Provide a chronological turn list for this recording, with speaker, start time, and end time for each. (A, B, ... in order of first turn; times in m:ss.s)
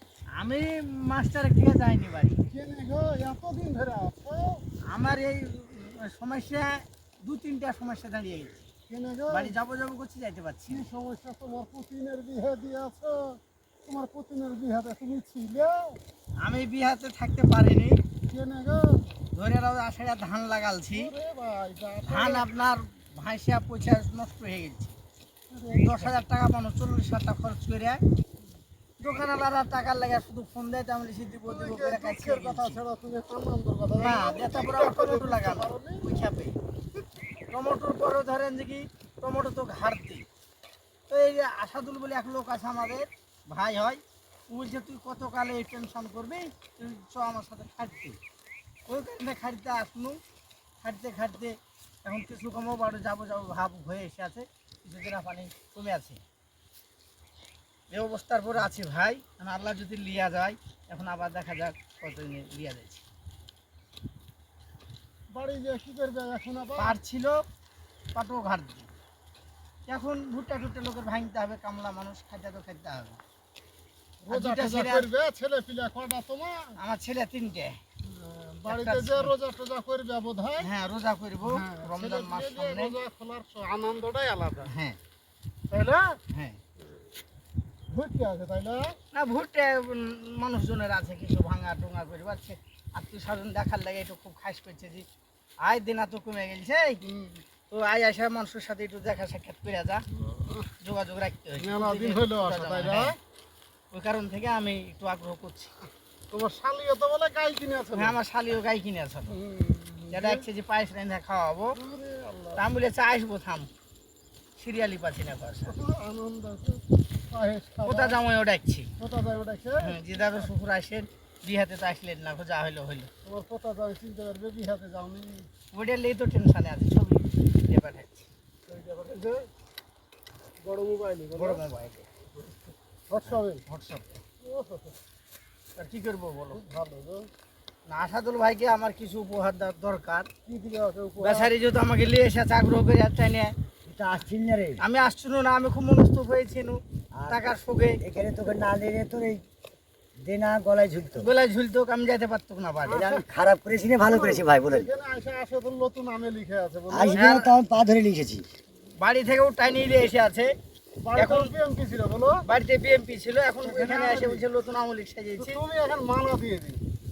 0:00.3-0:02.4 A
0:02.5-0:04.6 B
0:04.9-0:08.7 A
0:08.9-0:09.5 B
0:09.3-0:10.9 A
0:10.7-0:16.0 B
0:16.4-0:18.0 A
0:18.3-0:19.1 B
0:19.3-0:21.1 A
0:20.9-0:22.5 B
0:22.1-0:25.0 A
0:25.5-0:26.1 B
0:25.7-0:28.0 A
0:29.0-0:32.8 A
0:31.4-0:36.1 B
0:34.0-0:36.6 A
0:37.5-0:40.3 A
0:41.1-0:48.2 A
0:48.9-0:50.2 A
0:50.8-0:56.2 A
0:57.9-1:03.0 A
1:05.3-1:07.0 B
1:06.8-1:07.4 A
1:08.1-1:08.9 A
1:09.9-1:13.2 A
1:14.2-1:16.8 B
1:14.3-1:15.1 A
1:16.8-1:17.8 A
1:18.0-1:20.7 B
1:18.7-1:19.3 A
1:20.6-1:23.0 A
1:21.4-1:24.7 B
1:24.7-1:25.0 A
1:25.7-1:26.2 B
1:26.3-1:26.6 A
1:27.9-1:29.0 B
1:29.1-1:35.1 A
1:35.6-1:37.0 A
1:37.0-1:37.4 B
1:37.7-1:40.0 A
1:40.2-1:40.7 B
1:40.8-1:43.1 A
1:41.6-1:43.2 B
1:43.9-1:45.7 A
1:46.3-1:48.2 B
1:47.9-1:49.4 A
1:49.3-1:50.4 B
1:50.1-1:51.8 A
1:51.7-1:52.6 B
1:52.6-1:53.7 A
1:54.6-1:55.8 A
1:55.7-1:58.2 B
1:57.9-1:58.9 A
1:59.0-2:00.4 B
1:59.8-2:03.1 A
2:03.2-2:05.5 B
2:05.7-2:08.3 A
2:08.7-2:09.5 B
2:10.6-2:11.6 B
2:11.3-2:12.1 A
2:13.1-2:13.6 B
2:13.2-2:14.2 A
2:14.4-2:14.9 B
2:15.8-2:16.6 A
2:16.5-2:17.3 B
2:17.9-2:20.3 A
2:20.4-2:21.5 B
2:21.2-2:23.5 A
2:23.9-2:24.8 C
2:24.8-2:28.0 A
2:27.1-2:27.4 C
2:28.0-2:29.4 C
2:30.2-2:31.3 C
2:31.2-2:33.1 A
2:32.8-2:33.2 B
2:32.9-2:34.9 C
2:34.0-2:37.2 B
2:36.9-2:38.4 C
2:37.1-2:37.5 A
2:39.0-2:40.6 A
2:41.0-2:42.4 B
2:41.2-2:41.5 A
2:42.4-2:45.6 A
2:43.6-2:44.4 B
2:45.4-2:46.8 B